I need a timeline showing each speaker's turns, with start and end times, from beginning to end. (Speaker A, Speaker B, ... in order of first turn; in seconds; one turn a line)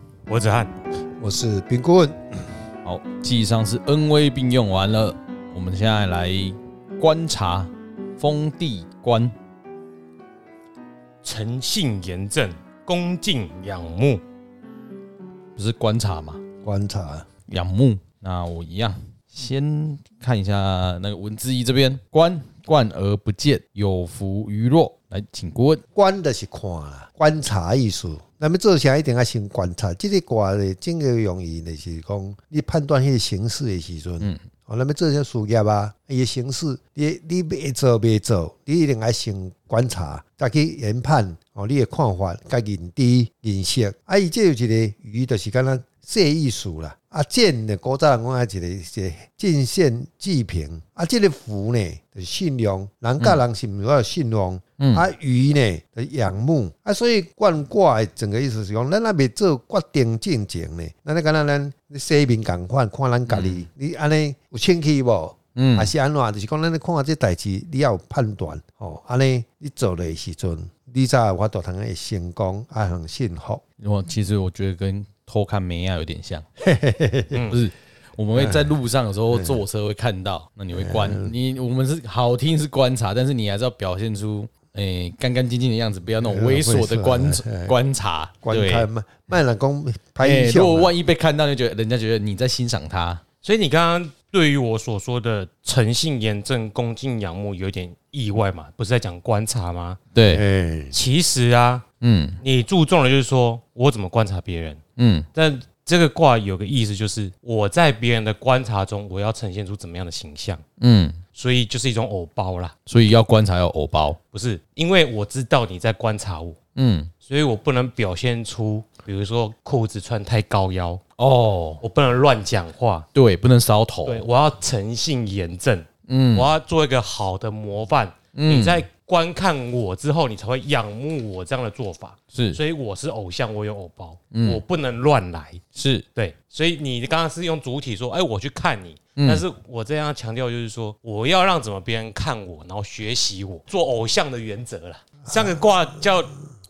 Speaker A: 0.3-0.7
Speaker B: 1.2-2.4
Speaker C: 2.9-9.3
Speaker A: 11.2-14.2
Speaker C: 15.6-16.4
Speaker B: 16.6-17.3
Speaker C: 17.5-25.8
Speaker B: 25.9-73.6
Speaker C: 54.8-55.0
Speaker C: 63.3-63.6
Speaker C: 65.6-65.9
Speaker C: 73.8-76.5
Speaker B: 76.6-77.4
Speaker C: 77.5-88.9
Speaker B: 78.4-78.8
Speaker B: 79.3-79.6
Speaker B: 80.7-81.3
Speaker B: 86.2-87.8
Speaker B: 88.4-91.0
Speaker C: 90.2-93.2
Speaker A: 93.4-100.0
Speaker C: 100.2-100.4
Speaker B: 100.3-101.0
Speaker A: 100.9-101.8
Speaker C: 102.0-102.4
Speaker A: 102.4-104.8
Speaker C: 105.0-105.3
Speaker A: 105.3-110.6
Speaker C: 110.8-111.2
Speaker A: 111.3-112.7
Speaker C: 112.9-114.2
Speaker A: 114.3-116.6
Speaker C: 116.8-117.1
Speaker A: 117.2-121.0
Speaker C: 121.2-121.8
Speaker A: 121.8-123.1
Speaker C: 123.1-124.3
Speaker A: 124.1-135.6
Speaker C: 126.1-126.5
Speaker C: 128.3-128.8
Speaker C: 132.3-132.6
Speaker C: 134.3-134.6
Speaker C: 135.8-136.1
Speaker A: 136.2-146.3
Speaker C: 139.2-139.4
Speaker B: 145.3-145.6